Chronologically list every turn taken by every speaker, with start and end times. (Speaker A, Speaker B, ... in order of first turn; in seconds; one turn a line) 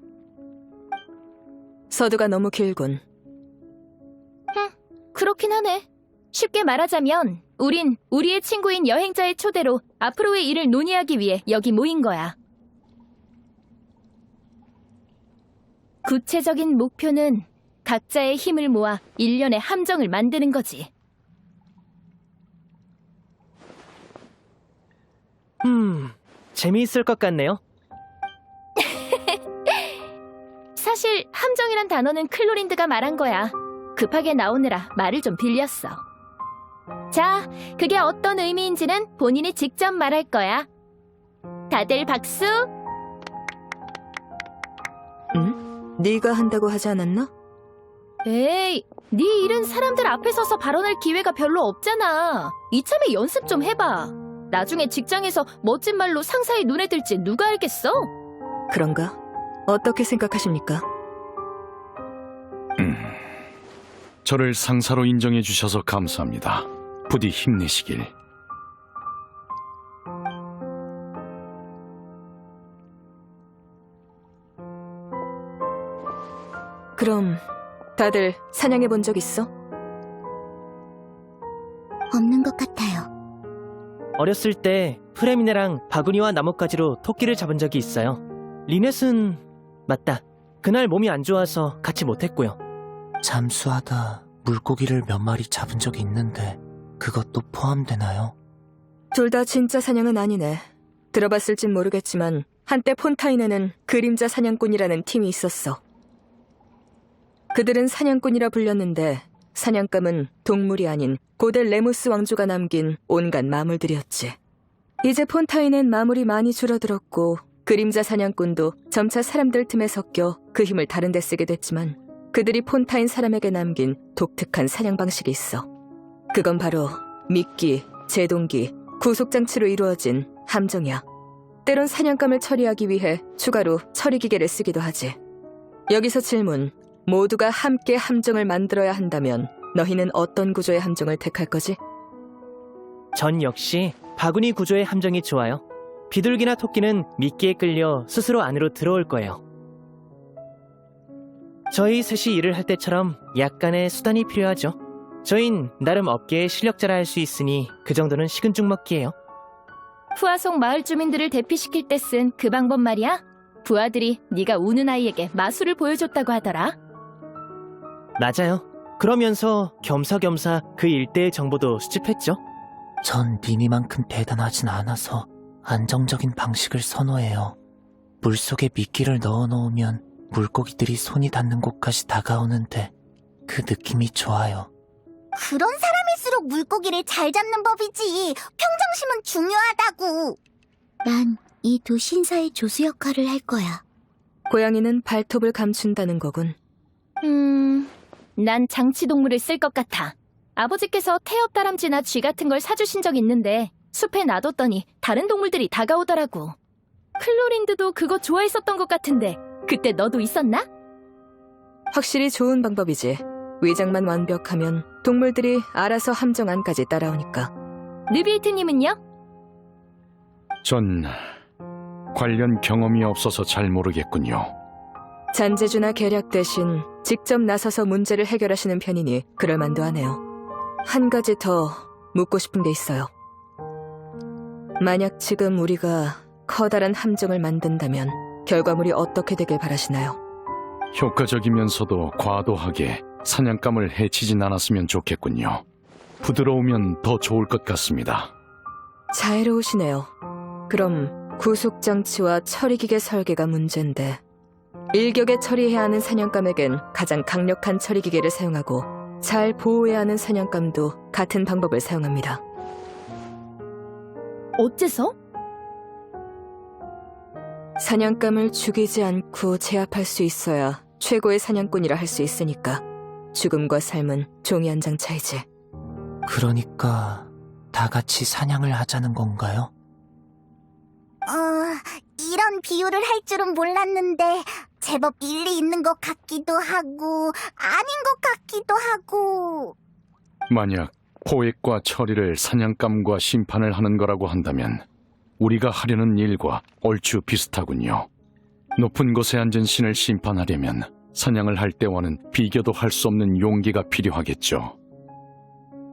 Speaker A: 1.9-3.0
Speaker B: 4.5-12.3
Speaker B: 16.0-20.9
Speaker C: 25.6-27.6
Speaker B: 30.8-36.0
Speaker B: 37.1-40.7
Speaker B: 41.7-42.7
Speaker A: 45.3-47.3
Speaker B: 48.2-58.1
Speaker A: 58.7-60.8
Speaker D: 62.8-63.2
Speaker D: 64.2-68.1
Speaker A: 77.0-77.4
Speaker A: 78.0-79.5
Speaker E: 82.1-83.1
Speaker C: 84.2-92.6
Speaker F: 93.2-98.3
Speaker A: 99.1-105.8
Speaker A: 107.5-114.4
Speaker A: 115.0-125.7
Speaker A: 126.3-131.0
Speaker A: 131.6-135.2
Speaker A: 135.9-141.8
Speaker C: 143.1-149.4
Speaker C: 151.7-159.1
Speaker B: 160.1-166.8
Speaker C: 168.2-172.4
Speaker F: 173.0-177.6
Speaker F: 178.2-182.9
Speaker F: 183.5-184.7
Speaker G: 185.3-190.4
Speaker E: 191.0-193.8
Speaker A: 194.5-196.6
Speaker B: 197.2-206.6
Speaker B: 207.2-210.7
Speaker A: 211.9-217.5
Speaker B: 218.1-219.0
Speaker D: 220.6-221.2
Speaker D: 222.1-224.5
Speaker A: 225.3-230.2
Speaker A: 230.8-233.1
Speaker A: 234.8-240.2
Speaker D: 240.9-245.6
Speaker D: 246.2-248.3
Speaker A: 249.1-250.1
Speaker A: 250.7-254.2
Speaker A: 254.9-262.4
Speaker B: 264.6-265.1
Speaker A: 267.8-275.4
Speaker F: 276.2-279.7
Speaker G: 281.2-289.7
Speaker D: 290.5-294.8
Speaker D: 295.4-298.1
Speaker D: 298.8-304.7